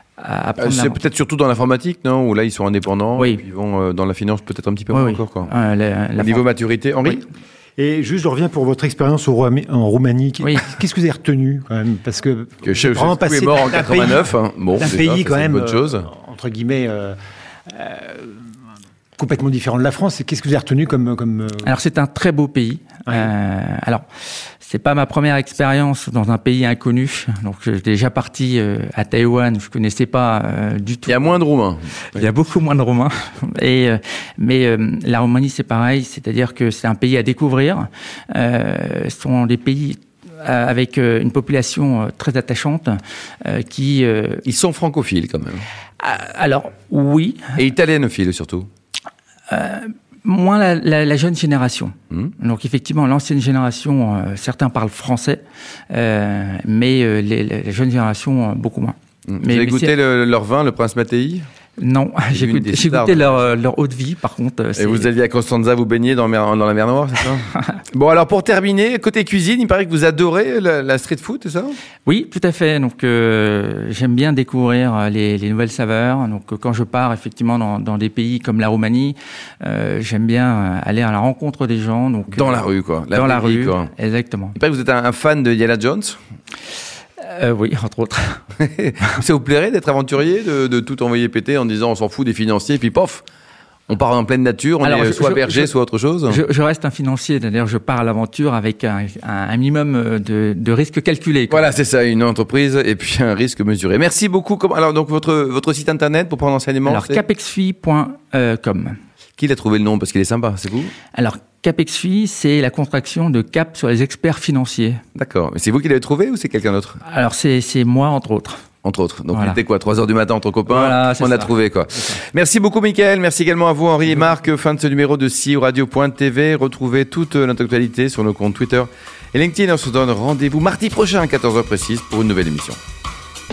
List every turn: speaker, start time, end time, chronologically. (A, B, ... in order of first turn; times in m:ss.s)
0:00.2-0:01.0 A
0:00.6-0:05.5 B
0:03.2-0:03.4 A
0:04.9-0:06.4 A
0:06.2-0:07.2 B
0:07.8-0:17.2 C
0:10.4-0:10.7 A
0:12.6-0:16.0 B
0:17.7-0:18.4 C
0:19.2-0:21.7 C
0:21.6-0:24.0 A
0:24.6-0:31.2 A
0:31.1-0:32.2 B
0:32.1-0:44.4 A
0:44.4-0:45.6 B
0:46.0-0:47.5 A
0:47.6-0:48.7 B
0:49.5-0:59.9 A
0:59.3-1:01.4 B
1:01.8-1:05.1 A
1:02.3-1:03.2 B
1:04.8-1:11.8 B
1:12.0-1:24.5 A
1:22.3-1:23.9 B
1:24.5-1:26.2 B
1:27.2-1:28.4 A
1:28.6-1:33.2 B
1:33.9-1:36.4 B
1:34.8-1:35.7 A
1:36.3-1:41.6 A
1:41.5-1:47.2 B
1:46.8-1:49.0 A
1:49.4-1:50.9 B
1:51.1-1:55.0 A
1:55.1-1:57.0 B
1:57.0-1:58.6 A
1:58.8-2:12.8 B
1:59.3-1:59.6 A
2:00.7-2:02.2 A